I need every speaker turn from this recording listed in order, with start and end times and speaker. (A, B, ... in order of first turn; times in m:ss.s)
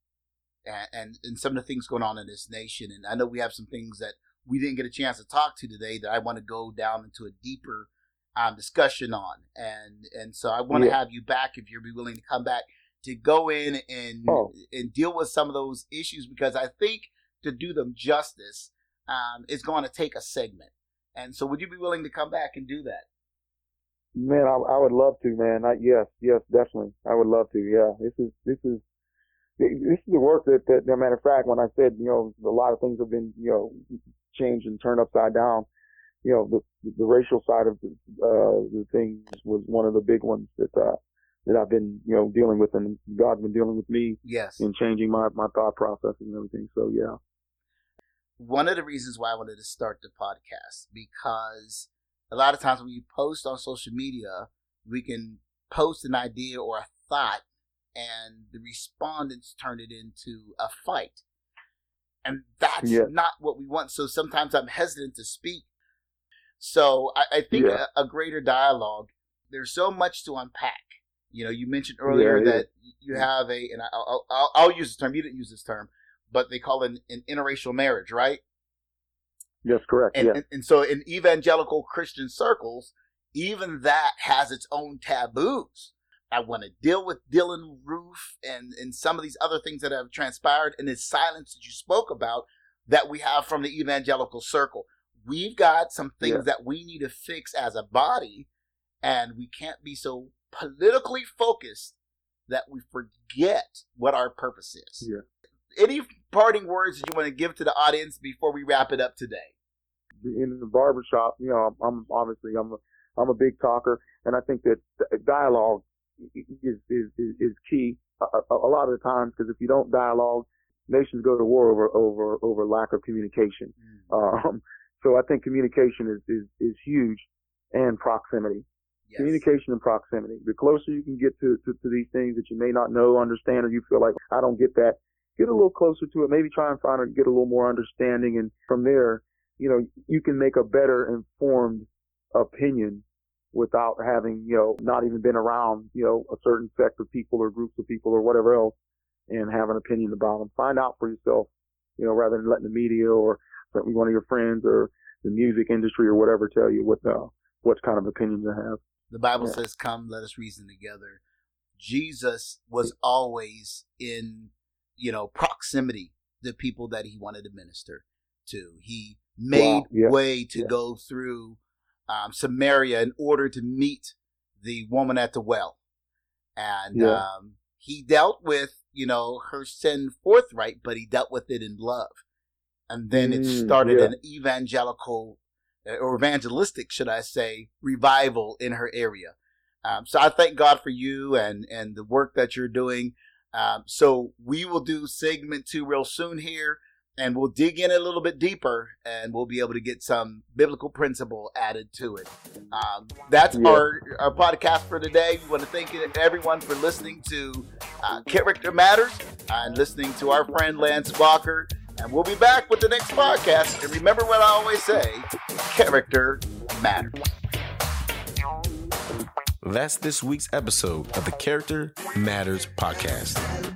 0:00.6-0:23.0 A
0:10.7-0:11.0 B
0:14.2-0:14.5 B
0:24.1-0:28.8 B
0:29.6-0:35.7 B
0:36.2-0:47.2 B
0:44.2-0:44.6 A
0:48.4-0:57.4 A
0:57.9-1:01.2 A
1:02.2-1:05.6 A
1:02.8-1:03.1 B
1:06.6-1:18.4 A
1:07.5-1:07.8 B
1:12.0-1:12.6 B
1:19.6-1:20.4 B
1:20.1-1:38.5 A
1:39.0-1:41.9 A
1:42.5-1:45.0 A
1:45.7-1:49.5 A
1:50.2-2:08.6 B
2:09.1-2:09.4 A
2:09.2-2:28.7 B
2:29.3-2:38.8 B
2:39.1-2:41.2 A
2:41.8-2:55.8 A
2:49.5-2:50.7 B
2:56.6-3:02.2 A
2:56.9-2:57.2 B
3:02.9-3:37.3 A
3:03.1-3:04.1 B
3:23.5-3:23.8 B
3:39.6-3:43.4 C